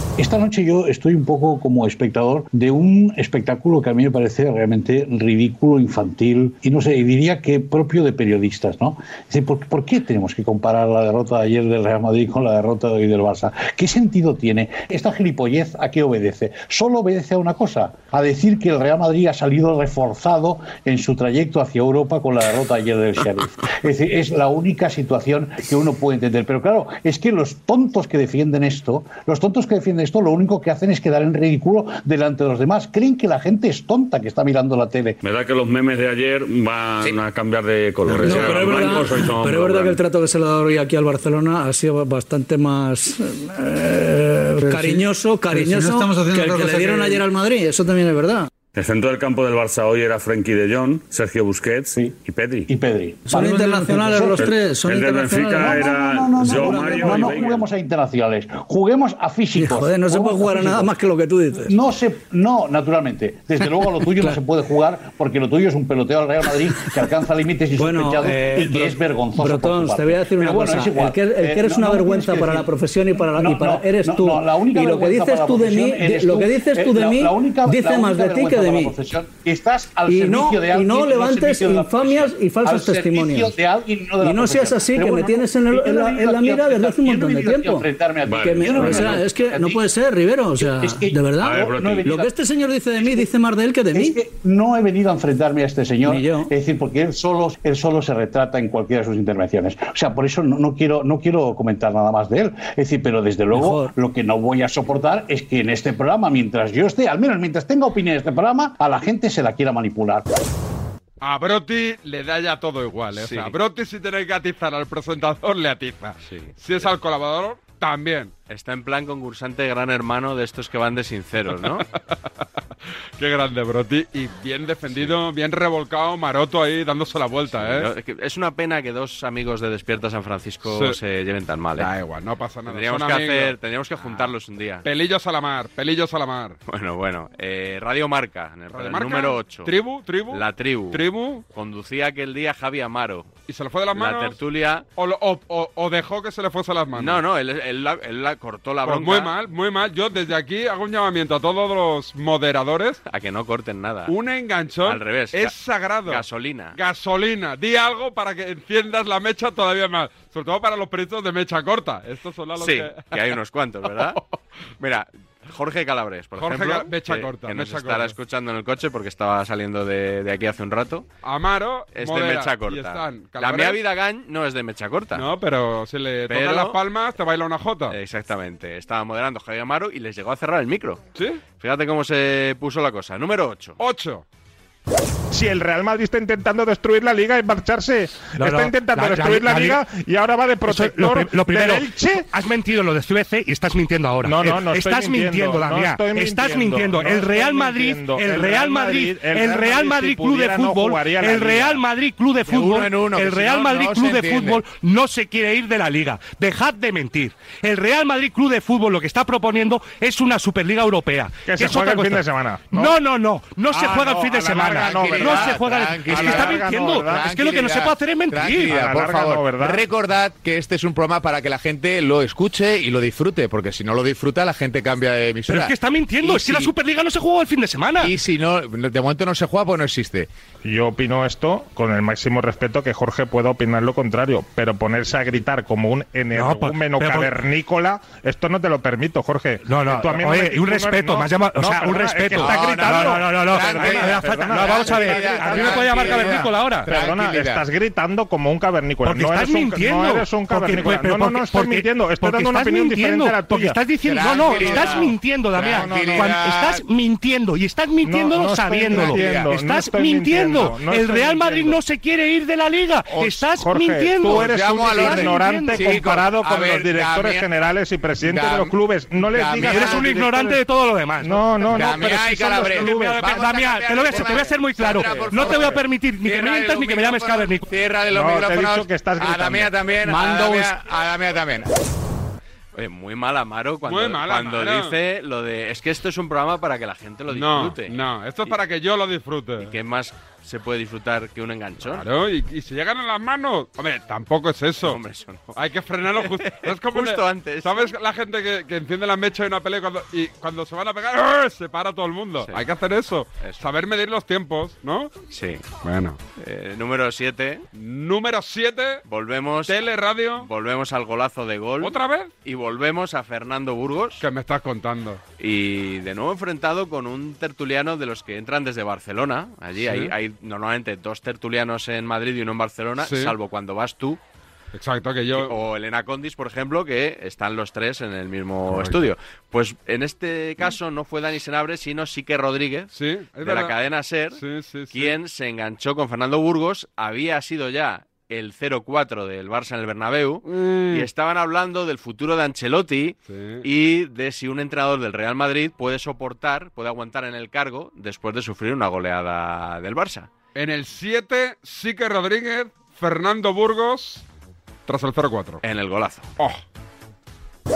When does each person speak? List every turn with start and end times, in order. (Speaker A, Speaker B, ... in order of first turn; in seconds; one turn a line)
Speaker A: 0.2-35.2
Speaker B: 35.2-40.0
Speaker C: 38.1-48.5
Speaker A: 38.2-38.5
Speaker B: 48.7-52.7
Speaker A: 51.9-54.5
Speaker C: 53.3-55.9
Speaker B: 54.4-57.7
Speaker A: 55.5-60.9
Speaker C: 56.5-57.4
Speaker C: 59.5-61.7
Speaker A: 61.6-89.8
Speaker C: 64.1-64.4
Speaker C: 67.8-78.9
Speaker C: 80.1-83.5
Speaker C: 84.2-94.2
Speaker B: 88.2-89.2
Speaker A: 90.6-92.3
Speaker B: 91.4-92.1
Speaker A: 93.9-110.3
Speaker C: 96.0-96.5
Speaker C: 103.5-103.9
Speaker D: 111.2-118.3
Speaker E: 113.1-113.5
Speaker E: 116.2-116.8
Speaker E: 118.5-121.8
Speaker D: 123.2-127.9
Speaker E: 124.9-125.2
Speaker E: 127.5-131.9
Speaker D: 130.6-131.0
Speaker D: 131.8-136.6
Speaker E: 132.7-134.8
Speaker E: 136.7-139.7
Speaker D: 138.7-141.4
Speaker E: 140.3-143.3
Speaker D: 143.5-144.4
Speaker E: 143.9-144.8
Speaker D: 144.9-147.2
Speaker E: 146.9-149.3
Speaker D: 148.8-153.0
Speaker E: 153.1-154.1
Speaker D: 154.1-156.2
Speaker E: 154.8-156.8
Speaker D: 156.7-163.2
Speaker E: 162.6-164.2
Speaker E: 164.8-171.1
Speaker D: 166.3-168.1
Speaker D: 171.2-173.8
Speaker E: 171.9-175.2
Speaker D: 175.1-177.9
Speaker E: 176.3-176.8
Speaker E: 177.9-183.8
Speaker D: 181.1-181.4
Speaker D: 183.8-184.2
Speaker F: 185.3-192.2
Speaker G: 188.4-189.8
Speaker G: 190.6-218.7
Speaker F: 194.2-201.8
Speaker H: 202.5-204.6
Speaker F: 211.4-213.0
Speaker F: 213.7-217.3
Speaker H: 214.7-226.7
Speaker F: 218.5-219.8
Speaker G: 225.5-228.1
Speaker H: 228.0-230.3
Speaker F: 230.6-253.8
Speaker G: 236.3-237.4
Speaker G: 239.6-246.9
Speaker H: 242.4-247.6
Speaker G: 249.0-265.9
Speaker H: 254.0-256.8
Speaker F: 254.3-256.4
Speaker F: 258.0-261.8
Speaker H: 258.9-259.5
Speaker H: 263.1-263.4
Speaker F: 263.6-270.6
Speaker H: 264.2-267.5
Speaker H: 268.2-270.2
Speaker G: 269.5-277.7
Speaker F: 271.2-273.4
Speaker H: 271.7-281.7
Speaker F: 274.1-274.4
Speaker F: 275.1-275.7
Speaker F: 278.1-280.6
Speaker E: 282.7-288.5
Speaker D: 283.9-284.9
Speaker D: 287.3-289.7
Speaker E: 289.6-292.0
Speaker D: 291.8-295.0
Speaker E: 294.8-295.6
Speaker D: 295.5-305.1
Speaker E: 296.1-297.9
Speaker E: 305.3-305.7
Speaker D: 305.7-306.2
Speaker E: 306.4-307.6
Speaker D: 307.7-309.0
Speaker E: 309.1-309.8
Speaker D: 309.6-310.5
Speaker E: 310.4-314.2
Speaker D: 311.8-312.3
Speaker D: 314.2-315.2
Speaker E: 315.4-324.2
Speaker D: 319.8-320.1
Speaker D: 323.0-323.3
Speaker D: 324.7-325.6
Speaker E: 325.3-334.4
Speaker D: 328.7-329.1
Speaker D: 332.9-333.7
Speaker D: 334.3-335.1
Speaker E: 334.9-350.3
Speaker D: 340.4-341.1
Speaker D: 343.3-343.6
Speaker D: 350.5-354.2
Speaker D: 354.9-355.6
Speaker E: 355.6-356.3